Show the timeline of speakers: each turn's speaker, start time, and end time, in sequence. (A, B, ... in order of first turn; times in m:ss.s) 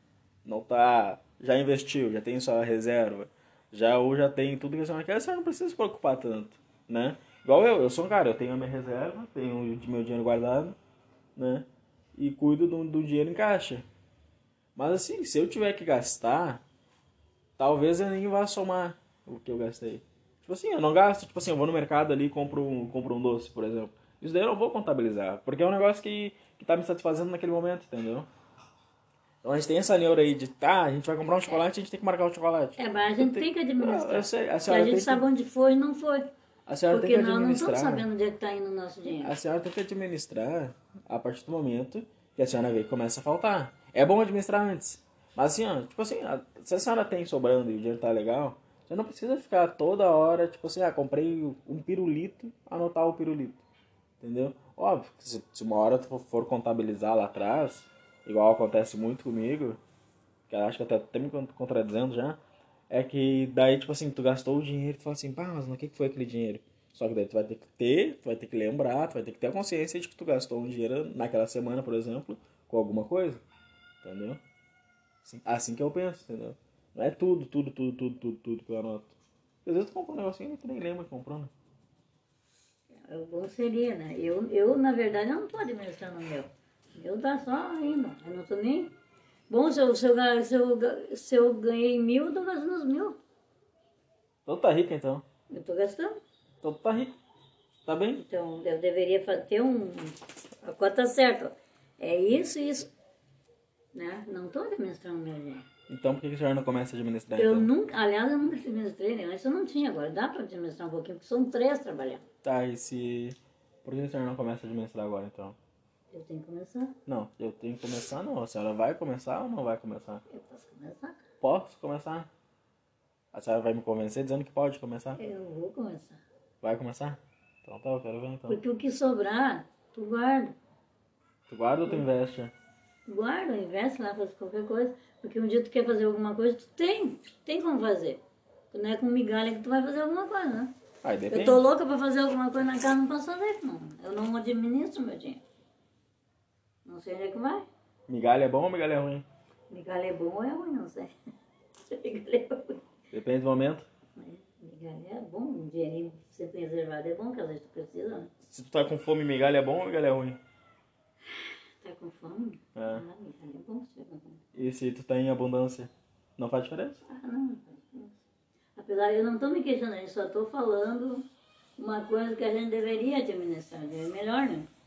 0:00.4-0:10.8 A
0:11.4-0:13.9 A
0:14.8-0:16.6 A
0:17.6-0:28.3 A
0:29.4-0:35.2 A
0:32.8-0:36.3 B
0:36.7-0:38.1 A
0:36.9-0:39.4 B
0:39.2-0:53.6 A
0:54.2-0:59.8 A
1:00.5-1:13.4 A
1:14.0-1:14.4 A
1:15.2-1:19.1 A
1:19.6-1:21.5 A
1:23.0-1:29.0 B
1:29.5-1:33.2 B
1:34.5-1:35.2 A
1:35.5-1:36.2 B
1:36.6-1:37.1 A
1:37.9-1:38.2 A
1:38.2-1:42.9 B
1:43.9-1:45.7 B
1:45.9-1:47.7 A
1:47.4-1:52.2 B
1:52.4-1:55.6 A
1:56.1-1:57.0 B
1:57.1-2:00.2 A
2:00.3-2:01.2 B
2:01.4-2:02.3 A
2:03.3-2:05.2 A
2:05.2-2:06.2 B
2:06.6-2:08.6 A
2:08.5-2:10.6 B
2:11.5-2:12.5 A
2:13.1-2:20.7 B
2:21.0-2:21.6 A
2:21.3-2:25.4 B
2:26.8-2:27.7 B
2:28.1-2:29.3 A
2:29.7-2:31.1 B
2:31.9-2:32.8 B
2:33.1-2:33.9 A
2:34.2-2:38.3 B
2:38.5-2:40.4 A
2:41.3-2:44.4 B
2:42.8-2:43.0 A
2:44.6-2:47.0 A
2:47.1-2:48.2 B
2:48.8-2:51.3 B
2:51.8-2:54.7 B